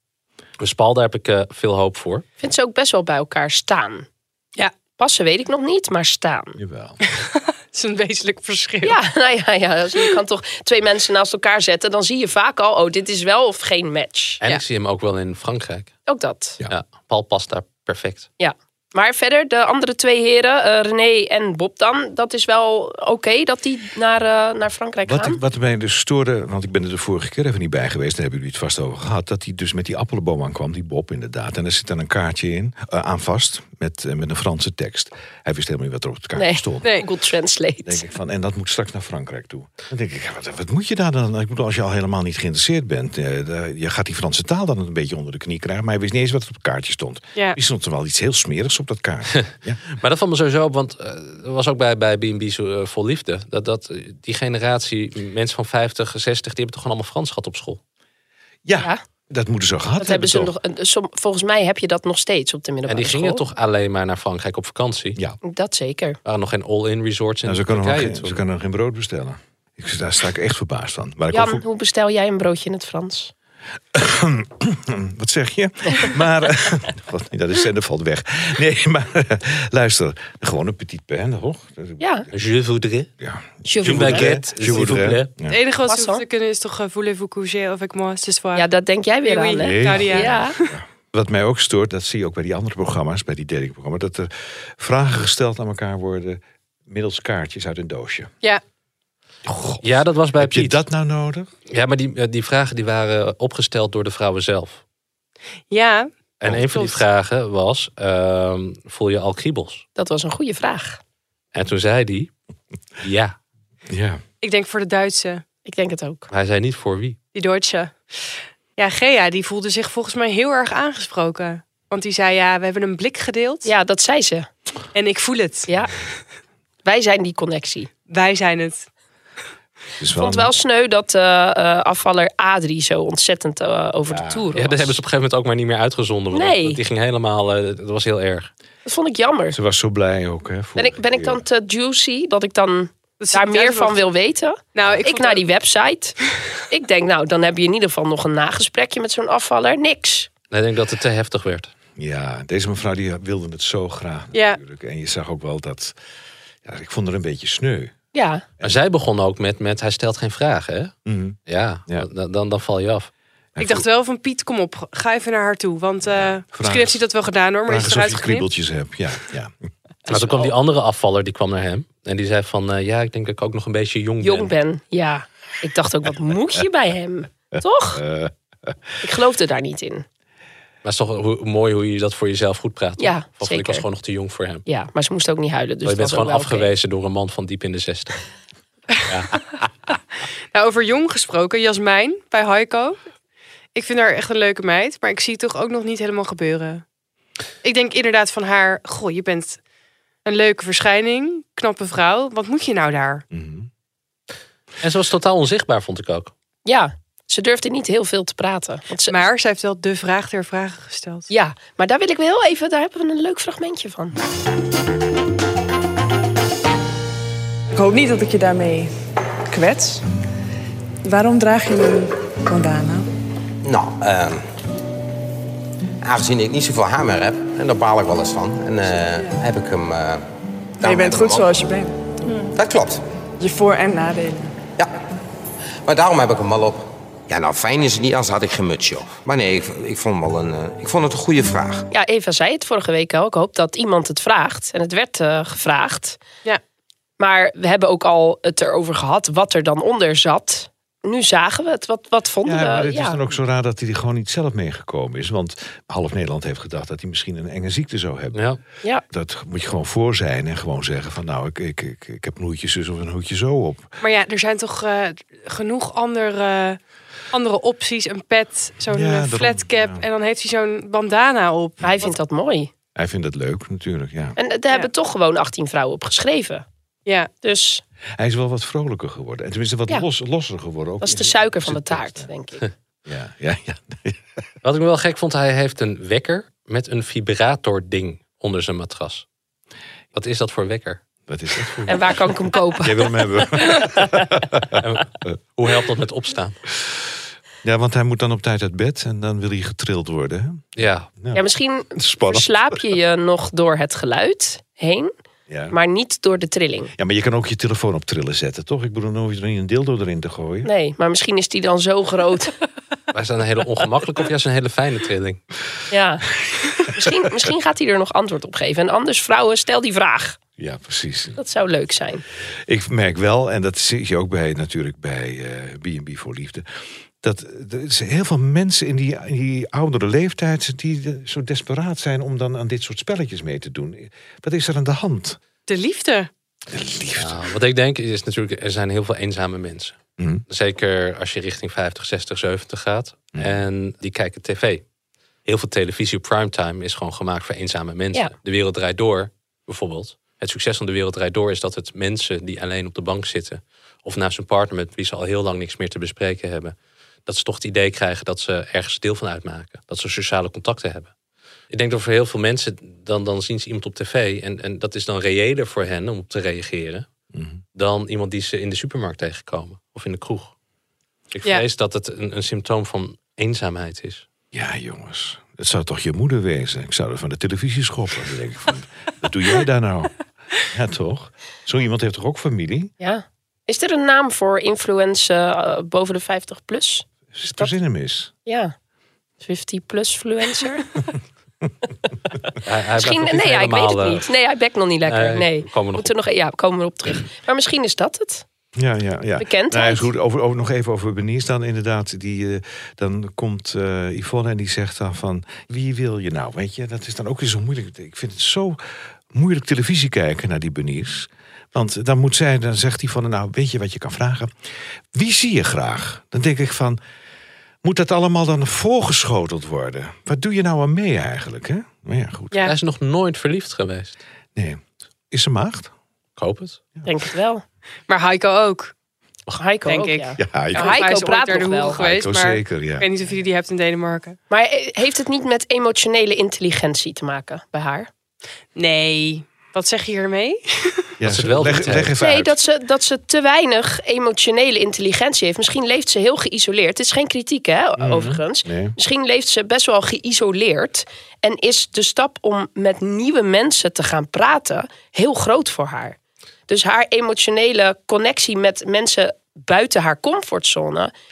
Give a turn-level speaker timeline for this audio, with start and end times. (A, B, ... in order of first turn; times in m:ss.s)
0:00.6-0:02.2 A
0:02.4-0:04.1 B
0:05.0-0:06.6 B
0:06.6-0:07.0 C
0:07.1-0:09.0 D
0:08.8-0:14.4 B
0:14.4-0:15.9 A
0:16.1-0:16.6 B
0:16.7-0:18.3 A
0:18.4-0:25.4 B
0:25.1-0:37.0 C
0:36.4-0:38.0 B
0:37.8-0:49.8 C
0:49.9-0:57.8 A
0:58.6-1:00.6 C
1:00.0-1:03.4 B
1:02.9-1:05.2 A
1:05.4-1:06.2 B
1:06.2-1:08.4 A
1:07.4-1:11.6 C
1:11.3-1:13.3 B
1:13.9-1:22.0 C
1:22.0-1:22.3 B
1:22.3-1:23.1 A
1:23.2-1:25.6 C
1:23.6-1:24.5 B
1:23.8-1:25.3 A
1:25.5-1:28.6 D
1:25.9-1:26.2 B
1:28.6-1:30.6 B
1:29.2-1:30.7 D
1:29.6-1:38.3 C
1:39.4-1:41.5 C
1:39.8-1:40.8 A
1:41.7-1:44.8 A
1:45.7-1:46.1 D
1:46.4-1:49.8 A
1:46.7-1:47.0 D
1:50.0-1:51.0 B
1:51.5-1:52.3 A
1:53.0-1:53.4 A
1:53.9-1:54.2 C
1:54.4-1:55.4 D
1:55.6-1:56.3 B
1:56.3-1:57.2 A
1:57.3-2:03.7 D
2:03.6-2:04.5 B
2:04.9-2:05.7 D
2:06.8-2:07.9 B
2:08.1-2:08.9 D
2:10.0-2:10.5 C
2:10.2-2:14.9 B
2:14.5-2:18.5 A
2:16.3-2:16.8 B
2:18.8-2:19.6 B
2:19.5-2:21.4 C
2:20.8-2:26.2 B
2:23.2-2:24.1 D
2:24.7-2:25.4 D
2:26.7-2:30.3 B
2:30.5-2:31.7 A
2:32.0-2:36.0 C
2:34.3-2:34.6 D
2:36.6-2:37.9 C
2:38.1-2:38.4 B
2:38.6-2:40.9 A
2:41.0-2:42.1 C
2:41.5-2:43.1 A
2:43.6-2:43.9 C
2:43.6-2:48.5 D
2:46.1-2:47.0 C
2:47.7-2:49.5 C
2:50.1-2:54.5 A
2:54.2-2:58.0 B
2:57.6-2:58.8 C
2:59.0-3:00.0 B
3:00.8-3:04.6 A
3:03.0-3:03.8 B
3:04.7-3:06.7 B
3:05.8-3:08.2 A
3:09.0-3:09.7 A
3:10.5-3:13.0 D
3:13.8-3:16.8 D
3:17.6-3:19.6 D
3:20.2-3:23.2 D
3:23.3-3:23.7 C
3:24.8-3:26.3 A
3:26.7-3:29.2 B
3:29.1-3:31.3 D
3:31.3-3:34.2 B
3:37.7-3:38.9 E
3:39.5-3:40.0 E
3:41.0-3:43.1 E
3:43.6-3:44.5 F
3:46.0-3:50.2 F
3:50.8-3:51.6 F
3:50.8-3:52.5 E
3:52.5-3:53.0 F
3:53.4-3:54.6 E
3:55.8-4:01.9 F
4:01.9-4:06.2 B
4:07.2-4:13.2 B
4:12.4-4:18.5 C
4:18.3-4:18.6 A
4:19.1-4:23.9 C
4:24.0-4:26.8 D
4:27.3-4:31.9 D
4:28.9-4:30.0 C
4:31.8-4:32.7 B
4:33.0-4:34.4 C
4:34.4-4:36.6 B
4:37.1-4:37.3 D
4:37.4-4:37.8 B
4:38.2-4:42.3 C
4:41.0-4:42.7 B
4:43.1-4:44.2 C
4:44.6-4:49.2 A
4:50.1-4:51.0 A
4:51.3-4:55.3 C
4:51.9-4:53.9 B
4:54.7-4:56.6 A
4:57.6-5:00.7 C
5:00.8-5:01.1 A
5:01.3-5:05.1 B
5:02.0-5:02.8 C
5:05.5-5:05.8 C
5:05.7-5:06.9 B
5:07.0-5:10.7 C
5:10.6-5:12.6 B
5:13.1-5:15.4 A
5:15.9-5:16.3 B
5:16.9-5:20.4 B
5:20.6-5:21.4 C
5:21.4-5:22.2 B
5:22.7-5:35.4 C
5:35.7-5:36.3 D
5:36.7-5:37.5 C
5:37.1-5:44.8 A
5:40.2-5:40.4 C
5:43.4-5:43.6 C
5:45.5-5:56.8 A
5:57.3-6:01.1 A
6:01.7-6:07.1 A
6:07.3-6:07.6 C
6:07.8-6:10.5 A
6:11.3-6:14.2 A
6:14.5-6:22.9 C
6:23.0-6:27.1 B
6:27.4-6:28.3 C
6:28.5-6:28.8 B
6:29.4-6:31.0 B
6:32.6-6:34.3 A
6:33.0-6:38.5 B
6:35.1-6:36.1 A
6:38.8-6:48.8 C
6:39.4-6:40.1 B
6:49.3-6:54.5 C
6:55.1-6:57.0 C
6:57.8-7:02.7 C
7:02.6-7:04.2 A
7:04.6-7:05.9 C
7:06.4-7:06.8 A
7:07.0-7:07.6 B
7:08.1-7:08.9 D
7:09.6-7:12.0 B
7:09.9-7:14.4 D
7:10.4-7:11.1 C
7:12.0-7:13.1 C
7:14.5-7:18.1 B
7:18.8-7:21.1 D
7:21.2-7:22.6 C
7:21.2-7:22.2 A
7:22.2-7:36.2 B
7:28.0-7:29.0 C
7:36.7-7:41.1 B